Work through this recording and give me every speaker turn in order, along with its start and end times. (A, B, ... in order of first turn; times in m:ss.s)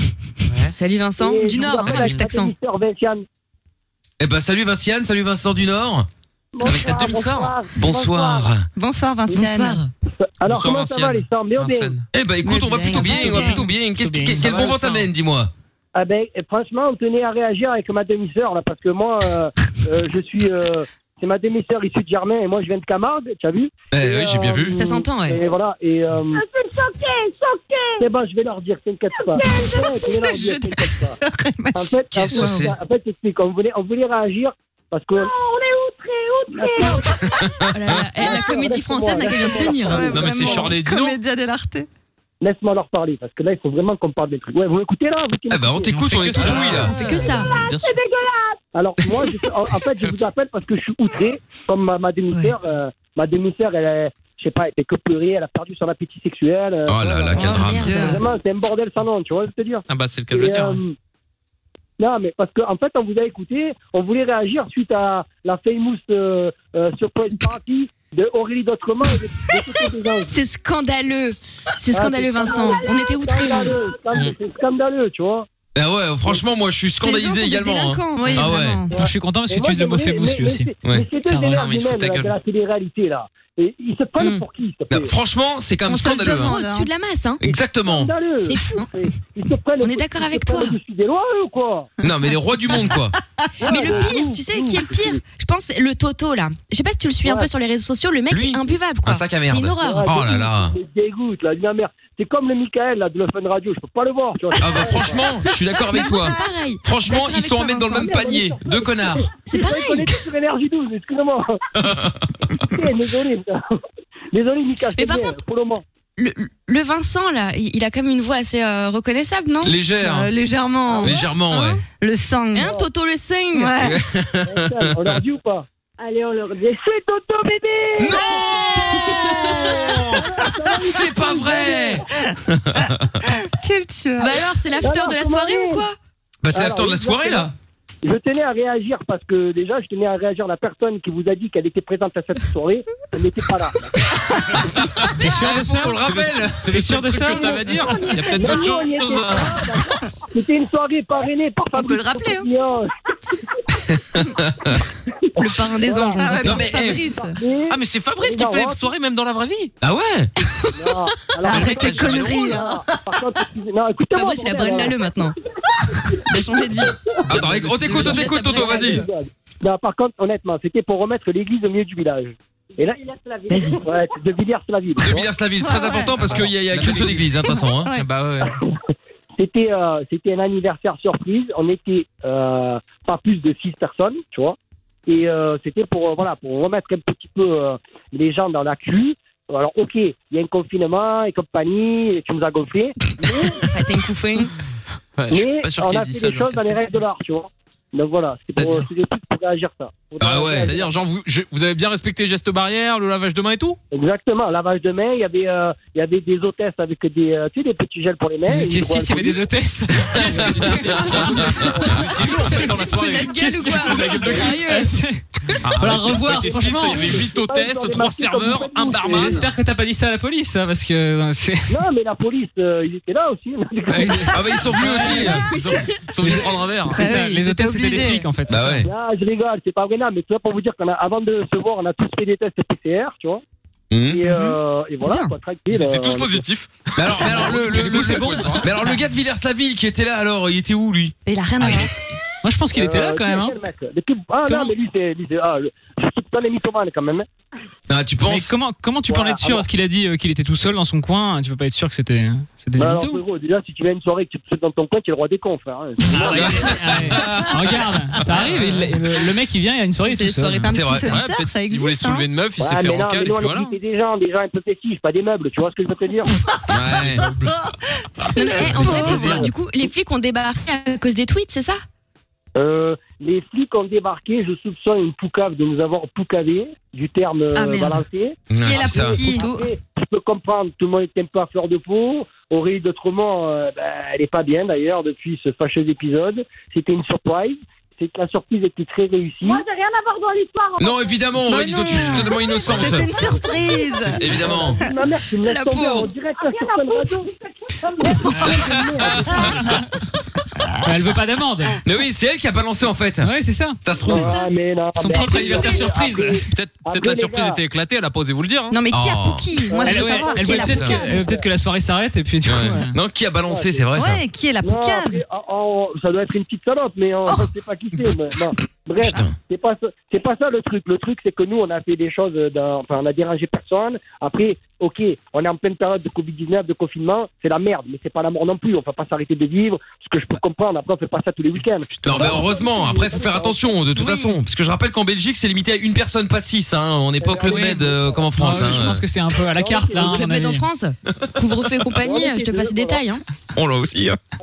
0:00.5-0:00.7 A
0:00.7-0:02.5 B
0:01.2-0:03.2 C
0:01.8-0:02.2 A
0:04.2-0:06.1 D
0:06.5-0:08.5 C
0:06.6-0:07.1 D
0:06.7-0:07.5 A
0:07.7-0:08.6 D
0:08.8-0:09.8 E
0:09.3-0:09.8 B
0:10.2-0:12.0 C
0:10.4-0:12.0 A
0:12.1-0:15.5 D
0:12.5-0:13.6 E
0:12.5-0:15.0 F
0:14.4-0:15.0 A
0:15.9-0:26.4 C
0:23.9-0:24.8 D
0:24.7-0:25.4 B
0:26.3-0:28.1 G
0:28.0-0:31.2 C
0:29.1-0:30.2 G
0:29.4-0:32.7 E
0:31.7-0:35.3 C
0:32.3-0:32.7 D
0:35.1-0:37.4 G
0:36.5-0:37.2 C
0:37.2-0:38.0 D
0:37.6-0:40.1 B
0:38.1-0:40.7 C
0:39.8-0:41.9 E
0:39.9-0:41.2 A
0:42.4-0:46.0 C
0:45.5-0:47.0 D
0:46.0-0:47.3 F
0:46.1-0:48.0 A
0:46.8-0:47.6 B
0:47.3-0:48.6 G
0:48.7-1:01.0 C
0:52.3-0:52.6 B
0:56.9-0:58.0 D
0:57.3-0:58.2 B
0:57.4-0:58.2 E
0:59.9-1:00.8 A
1:02.0-1:10.3 C
1:10.3-1:13.8 B
1:11.9-1:15.5 C
1:15.7-1:18.8 D
1:16.9-1:18.8 B
1:18.1-1:18.9 E
1:18.9-1:25.1 C
1:18.9-1:20.7 F
1:21.2-1:21.7 F
1:21.5-1:22.3 A
1:24.2-1:24.4 B
1:24.9-1:26.6 D
1:25.9-1:26.9 E
1:26.2-1:27.4 B
1:27.4-1:28.1 D
1:27.8-1:31.9 C
1:28.4-1:28.9 B
1:29.8-1:30.8 B
1:32.0-1:33.1 D
1:33.6-1:35.2 C
1:33.6-1:40.1 B
1:37.2-1:37.5 C
1:38.3-1:40.7 D
1:39.8-1:45.4 C
1:44.6-1:49.3 D
1:45.8-1:48.3 B
1:47.9-1:51.6 C
1:49.4-1:50.2 B
1:51.8-1:52.4 D
1:52.7-1:53.6 C
1:54.3-1:55.8 C
1:55.0-1:55.4 B
1:56.2-1:59.8 B
1:59.6-2:00.3 D
2:00.0-2:01.1 E
2:01.0-2:01.8 D
2:01.5-2:01.8 B
2:01.8-2:02.7 E
2:02.5-2:03.8 B
2:02.6-2:02.9 C
2:03.5-2:04.0 E
2:03.8-2:04.9 D
2:04.4-2:05.6 C
2:06.7-2:08.4 C
2:08.0-2:13.2 D
2:09.3-2:10.0 E
2:09.9-2:12.0 C
2:13.4-2:14.4 E
2:14.2-2:16.0 B
2:14.8-2:15.8 C
2:16.4-2:17.5 D
2:16.5-2:17.5 C
2:18.0-2:23.9 C
2:24.7-2:27.3 D
2:25.2-2:26.0 F
2:25.9-2:29.6 A
2:26.7-2:28.2 F
2:28.0-2:32.9 C
2:31.7-2:32.4 E
2:33.7-2:34.8 D
2:35.4-2:36.5 B
2:35.7-2:38.9 C
2:36.2-2:37.4 E
2:36.4-2:37.0 D
2:37.7-2:39.7 A
2:39.8-2:40.3 D
2:40.7-2:45.2 C
2:41.4-2:42.6 A
2:41.4-2:43.0 E
2:44.1-2:45.3 B
2:46.2-2:49.1 B
2:47.3-2:49.0 D
2:47.3-2:48.0 A
2:47.9-2:53.1 C
2:53.5-2:53.8 B
2:53.7-2:55.2 C
2:55.0-2:57.9 D
2:55.6-2:56.3 E
2:56.2-2:57.3 A
2:57.5-2:58.0 E
2:58.0-2:58.5 A
2:59.4-3:13.7 C
3:13.7-3:14.5 B
3:15.2-3:16.8 A
3:15.3-3:21.0 C
3:18.6-3:18.9 A
3:20.2-3:20.7 D
3:20.6-3:23.8 A
3:23.9-3:29.4 C
3:28.5-3:37.2 F
3:30.1-3:31.7 D
3:30.5-3:34.6 A
3:32.2-3:34.9 B
3:35.6-3:39.4 A
3:36.1-3:39.5 C
3:39.1-3:41.7 F
3:41.7-3:44.6 C
3:43.9-3:45.5 F
3:44.3-3:45.5 D
3:45.5-3:47.0 A
3:46.2-3:48.9 F
3:46.9-3:48.2 E
3:48.5-3:48.9 D
3:48.8-3:53.4 C
3:53.9-3:54.2 D
3:54.1-3:56.5 C
3:54.3-3:55.3 B
3:55.7-3:58.7 A
3:57.0-4:01.1 D
3:57.6-3:58.9 F
4:01.2-4:01.9 E
4:01.6-4:01.9 F
4:02.4-4:03.5 F
4:02.7-4:07.2 C
4:04.5-4:04.7 F
4:07.9-4:08.5 D
4:08.2-4:13.2 F
4:09.1-4:09.7 C
4:12.8-4:16.7 C
4:16.0-4:20.7 F
4:16.3-4:17.9 D
4:18.4-4:18.9 A
4:20.0-4:21.0 B
4:20.6-4:22.3 E
4:20.7-4:21.1 D
4:21.1-4:23.8 A
4:22.6-4:26.3 C
4:26.7-4:27.3 D
4:27.0-4:27.5 A
4:27.1-4:27.7 E
4:28.3-4:29.5 E
4:28.3-4:31.8 B
4:28.8-4:29.5 C
4:32.5-4:49.6 C
4:37.6-4:38.0 B
4:38.5-4:39.3 D
4:38.5-4:39.4 E
4:39.3-4:39.7 B
4:49.4-4:51.1 G
4:50.8-4:53.1 D
4:51.4-4:54.9 E
4:52.5-4:52.7 G
4:53.5-4:53.9 G
4:54.2-4:54.8 D
4:54.2-4:57.3 C
4:55.4-4:56.1 B
4:56.4-4:57.2 G
4:58.0-4:59.8 C
4:58.3-4:58.6 F
4:58.3-4:59.8 D
4:59.5-4:59.8 F
5:00.8-5:01.8 F
5:01.8-5:03.3 D
5:03.2-5:03.8 F
5:03.8-5:04.4 D
5:04.0-5:07.6 C
5:05.0-5:06.4 F
5:05.1-5:05.8 B
5:05.3-5:05.8 A
5:06.5-5:08.7 A
5:08.7-5:11.4 E
5:08.9-5:09.5 D
5:09.7-5:11.4 C
5:09.8-5:13.0 F
5:10.4-5:11.0 D
5:12.4-5:14.2 D
5:13.5-5:13.9 C
5:13.9-5:15.2 E
5:14.6-5:33.8 C
5:19.0-5:19.3 D
5:31.9-5:32.4 A
5:32.0-5:39.0 D
5:33.9-5:34.3 E
5:37.2-5:38.8 C
5:37.4-5:40.7 F
5:39.4-5:40.2 C
5:40.0-5:43.2 B
5:42.0-5:43.0 C
5:43.5-5:44.2 D